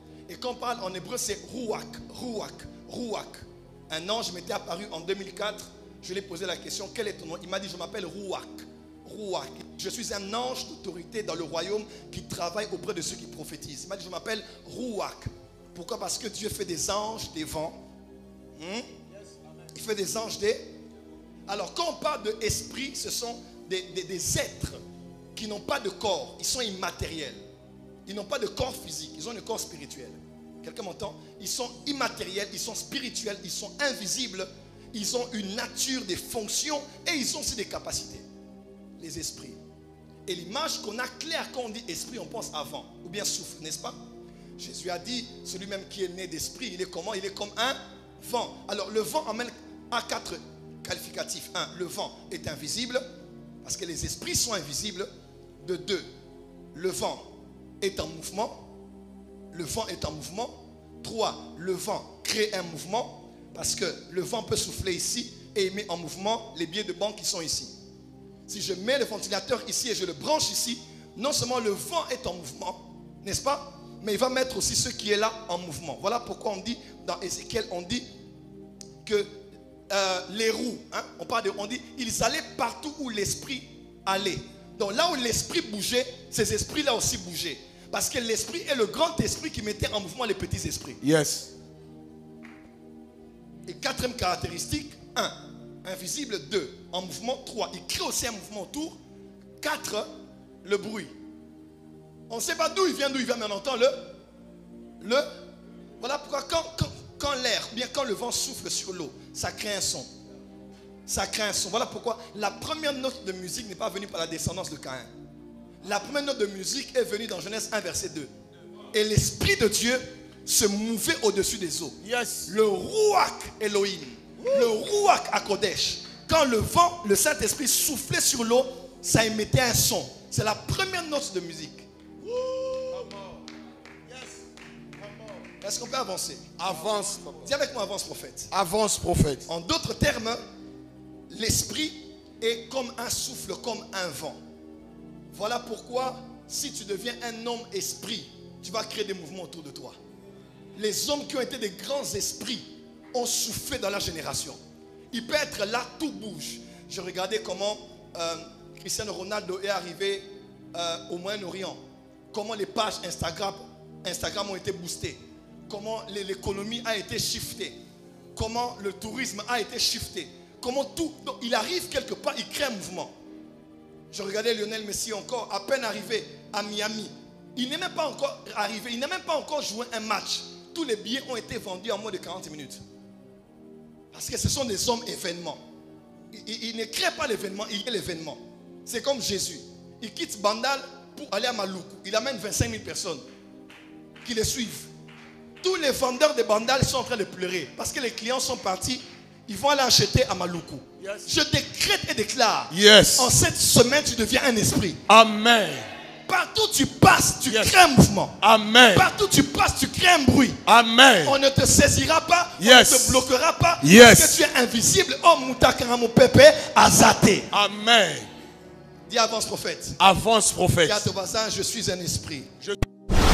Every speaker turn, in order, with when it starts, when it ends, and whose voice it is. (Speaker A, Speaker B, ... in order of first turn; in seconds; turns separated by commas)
Speaker A: 0.3-17.8, Speaker A: 18.6-18.9, Speaker A: 19.7-20.6, Speaker A: 21.5-24.8, Speaker A: 25.4-27.4, Speaker A: 28.1-38.2, Speaker A: 39.0-39.6, Speaker A: 40.3-44.0, Speaker A: 44.6-53.0, Speaker A: 53.6-55.1, Speaker A: 55.6-56.1, Speaker A: 56.7-57.2, Speaker A: 57.8-58.6, Speaker A: 59.5-67.7, Speaker A: 68.5-78.0, Speaker A: 79.0-79.3, Speaker A: 79.9-91.0, Speaker B: 91.0-91.5, Speaker A: 93.7-99.0, Speaker A: 99.6-100.1, Speaker A: 100.6-101.1, Speaker A: 102.3-104.0, Speaker A: 105.0-105.3, Speaker A: 106.0-110.1, Speaker A: 111.1-115.1, Speaker A: 115.8-118.3, Speaker A: 118.9-131.9, Speaker B: 122.0-122.5, Speaker B: 124.4-124.7, Speaker B: 132.2-133.2, Speaker A: 135.6-136.5, Speaker B: 136.6-137.5, Speaker A: 137.3-138.5, Speaker B: 138.5-139.5, Speaker A: 139.5-140.4, Speaker A: 141.3-144.4, Speaker A: 145.3-150.0, Speaker A: 150.8-154.6, Speaker A: 155.1-161.8, Speaker A: 162.3-167.8, Speaker A: 168.3-173.1, Speaker A: 174.1-182.8, Speaker A: 184.1-185.6, Speaker A: 186.3-193.2, Speaker A: 194.2-194.9, Speaker A: 195.6-205.0, Speaker B: 202.7-203.3, Speaker B: 205.1-205.9, Speaker A: 206.3-208.4, Speaker B: 207.5-207.8, Speaker B: 208.4-209.1, Speaker A: 208.9-210.6, Speaker B: 210.7-211.4, Speaker A: 211.2-217.5, Speaker B: 212.6-213.2, Speaker B: 213.8-214.4, Speaker B: 217.5-218.3, Speaker A: 219.1-220.0, Speaker B: 220.0-221.1, Speaker A: 220.8-222.5